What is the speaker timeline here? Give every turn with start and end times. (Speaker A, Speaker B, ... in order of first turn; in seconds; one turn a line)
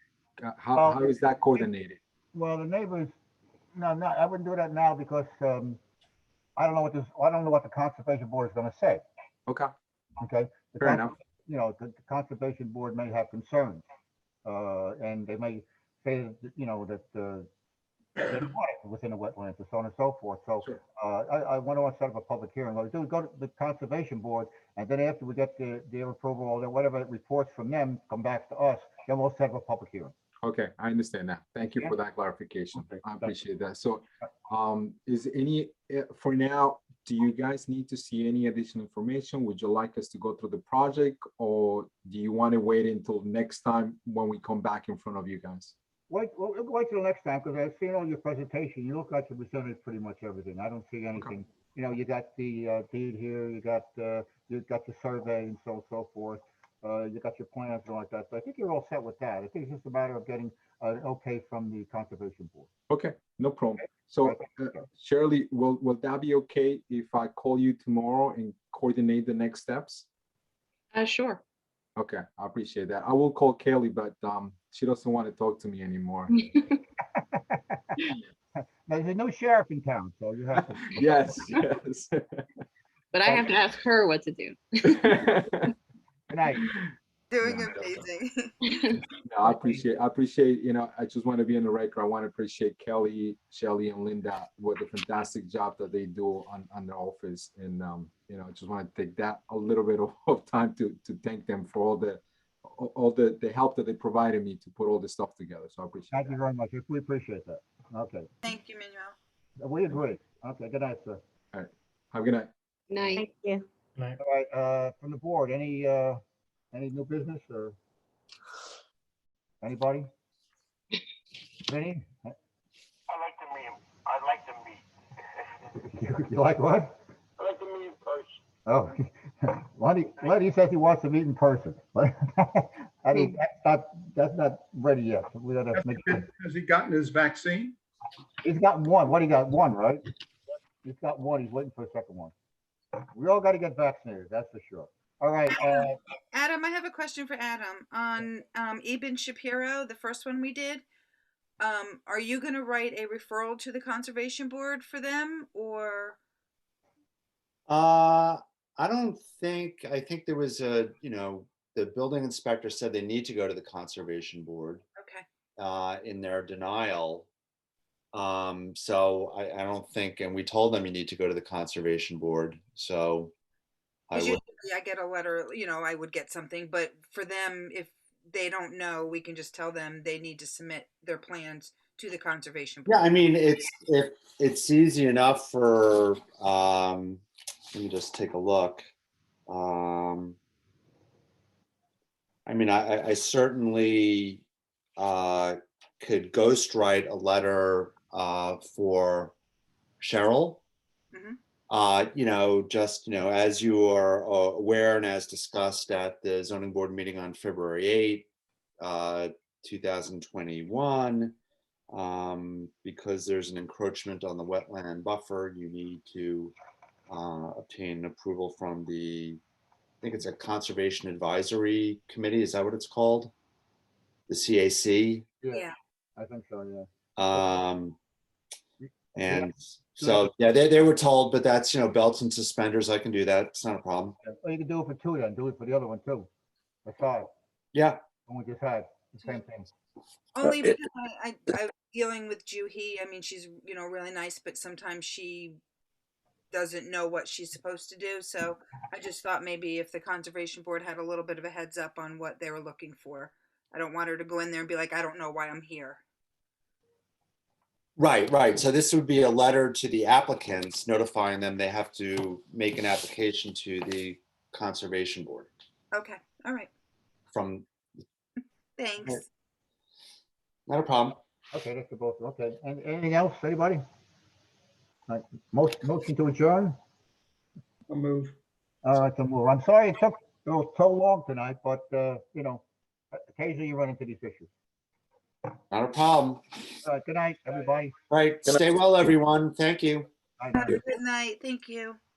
Speaker A: 0.4-2.0
Speaker B: 0.8-1.6
Speaker B: 2.3-3.1
Speaker B: 3.7-5.8
Speaker B: 6.6-9.0
Speaker B: 10.2-13.8
Speaker A: 10.8-11.1
Speaker B: 14.4-17.5
Speaker B: 18.2-30.1
Speaker A: 30.4-45.7
Speaker B: 33.0-33.3
Speaker B: 46.1-62.7
Speaker A: 62.9-70.1
Speaker B: 64.2-64.8
Speaker C: 70.9-71.4
Speaker A: 72.0-76.4
Speaker B: 77.1-78.0
Speaker B: 78.9-81.4
Speaker A: 80.6-82.5
Speaker C: 83.1-85.2
Speaker A: 84.9-85.7
Speaker B: 86.3-86.7
Speaker D: 87.3-88.7
Speaker A: 87.5-88.0
Speaker C: 88.6-89.0
Speaker A: 89.2-106.3
Speaker B: 106.1-108.3
Speaker D: 108.4-109.1
Speaker B: 109.6-111.2
Speaker A: 111.5-112.5
Speaker C: 112.9-113.3
Speaker B: 114.2-116.2
Speaker B: 116.7-117.8
Speaker B: 119.6-120.1
Speaker B: 121.7-122.3
Speaker E: 123.2-124.6
Speaker B: 125.7-126.9
Speaker E: 127.4-128.2
Speaker B: 128.7-136.2
Speaker F: 135.7-137.8
Speaker B: 138.4-140.0
Speaker B: 140.8-142.3
Speaker B: 143.1-146.0
Speaker D: 145.5-150.8
Speaker D: 151.6-156.2
Speaker G: 157.7-164.8
Speaker D: 165.0-165.2
Speaker G: 165.6-167.3
Speaker G: 168.1-173.3
Speaker G: 174.1-174.4
Speaker D: 174.1-183.4
Speaker G: 182.9-188.8
Speaker G: 189.5-190.4
Speaker G: 192.4-194.4
Speaker G: 195.0-199.3
Speaker G: 200.0-200.6
Speaker G: 201.7-208.3
Speaker G: 208.8-211.3
Speaker G: 211.9-216.5
Speaker G: 217.1-219.4
Speaker G: 220.0-223.3
Speaker G: 224.3-225.2
Speaker B: 226.2-227.4
Speaker G: 227.2-228.0
Speaker B: 228.8-230.3
Speaker G: 229.1-234.2
Speaker B: 234.2-236.3
Speaker B: 236.8-237.3
Speaker G: 237.7-238.0
Speaker B: 238.2-239.7
Speaker D: 240.3-245.6
Speaker D: 246.5-256.0
Speaker G: 258.0-265.5
Speaker D: 265.9-266.7
Speaker G: 267.3-267.7
Speaker D: 268.8-269.3
Speaker G: 270.7-271.2
Speaker B: 271.5-273.8
Speaker B: 275.1-276.7
Speaker F: 277.9-278.4
Speaker B: 278.8-282.6
Speaker B: 283.1-284.5
Speaker G: 285.7-286.4
Speaker B: 286.8-287.9
Speaker G: 288.1-290.1
Speaker B: 290.4-290.8
Speaker D: 290.5-292.0